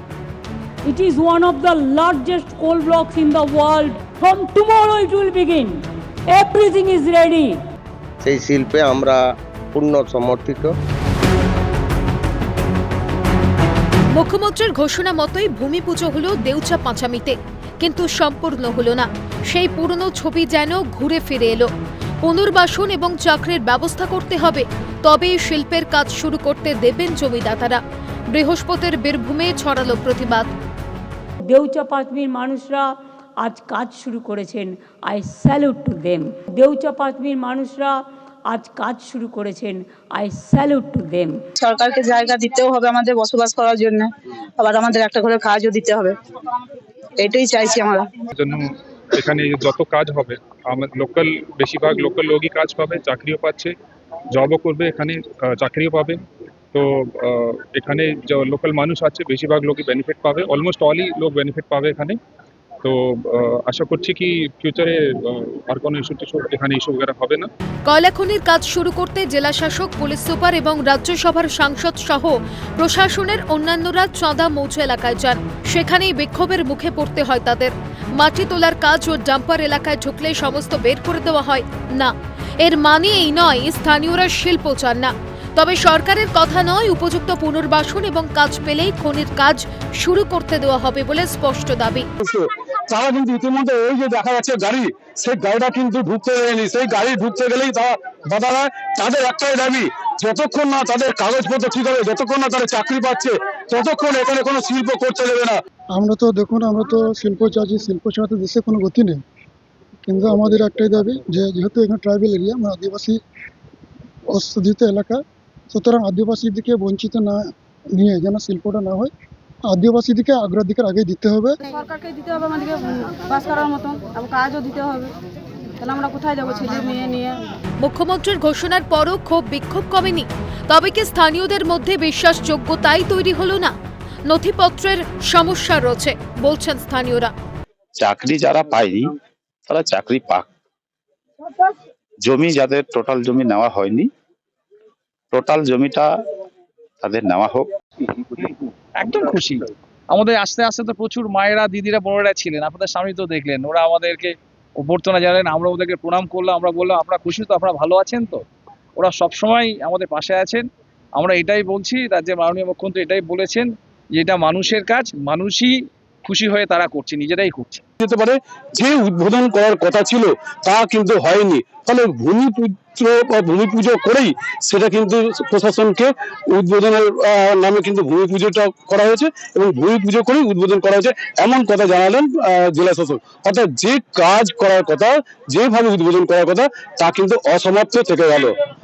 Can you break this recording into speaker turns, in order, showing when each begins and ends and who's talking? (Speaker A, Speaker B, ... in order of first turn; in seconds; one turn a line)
Speaker A: 0.8-7.6
Speaker B: 8.2-10.8
Speaker C: 14.2-21.7
Speaker C: 22.2-27.8
Speaker C: 28.3-30.5
Speaker A: 31.5-41.3
Speaker D: 41.6-46.2
Speaker D: 47.2-48.1
Speaker E: 49.2-53.7
Speaker E: 54.4-56.2
Speaker E: 56.8-62.1
Speaker E: 63.7-64.9
Speaker E: 65.7-67.4
Speaker C: 67.9-92.1
Speaker F: 92.2-105.6
Speaker G: 105.9-109.2
Speaker G: 110.1-113.2
Speaker G: 114.3-115.2
Speaker G: 115.7-117.4
Speaker G: 117.9-119.1
Speaker G: 119.7-121.6
Speaker H: 121.7-125.1
Speaker H: 125.8-127.4
Speaker C: 127.8-133.7
Speaker C: 134.3-137.3
Speaker I: 138.0-139.1
Speaker I: 139.7-140.5
Speaker I: 142.2-144.1
Speaker I: 145.3-146.1
Speaker I: 147.0-147.7
Speaker J: 148.4-158.4
Speaker J: 159.0-167.8
Speaker F: 168.0-188.5